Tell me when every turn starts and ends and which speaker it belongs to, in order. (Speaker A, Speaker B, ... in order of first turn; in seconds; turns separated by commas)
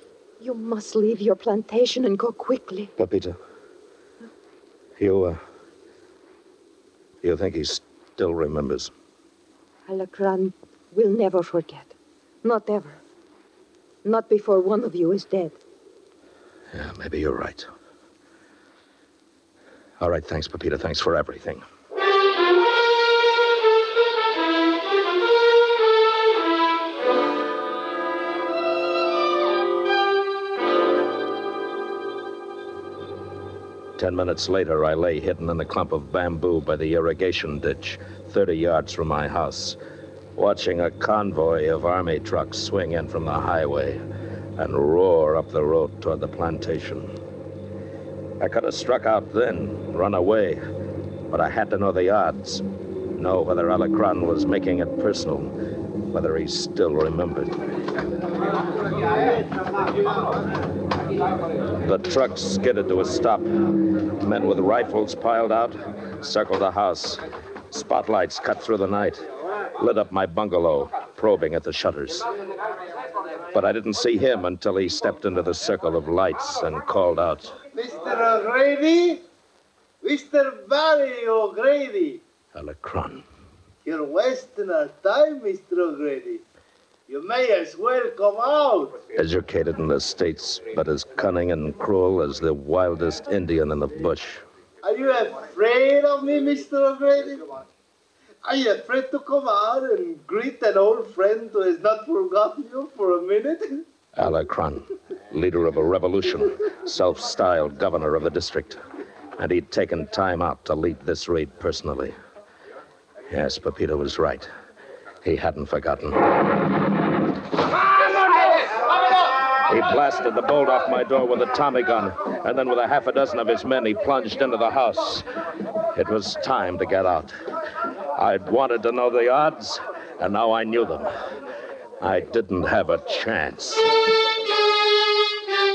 Speaker A: 0.4-2.9, Speaker B: 3.0-3.4, Speaker B: 5.0-5.4, Speaker B: 7.2-8.9, Speaker A: 9.9-13.0, Speaker A: 14.0-15.6, Speaker B: 16.7-17.7, Speaker B: 20.0-21.6, Speaker B: 34.0-39.8, Speaker B: 40.4-44.0, Speaker B: 44.6-47.1, Speaker B: 48.4-50.6, Speaker B: 51.3-52.6, Speaker B: 53.1-55.5, Speaker B: 56.1-57.6, Speaker C: 59.0-60.4, Speaker B: 61.8-63.5, Speaker B: 64.2-69.2, Speaker B: 69.8-72.2, Speaker B: 73.5-77.5, Speaker C: 77.7-79.2, Speaker C: 80.0-82.2, Speaker B: 82.5-83.2, Speaker C: 83.8-86.4, Speaker C: 87.1-89.0, Speaker B: 89.1-94.4, Speaker C: 94.8-97.6, Speaker C: 98.4-103.8, Speaker B: 104.2-108.8, Speaker B: 109.4-112.2, Speaker B: 113.3-114.5, Speaker B: 115.2-116.3, Speaker B: 119.6-125.2, Speaker B: 125.9-127.3, Speaker B: 128.1-131.1, Speaker B: 132.0-133.9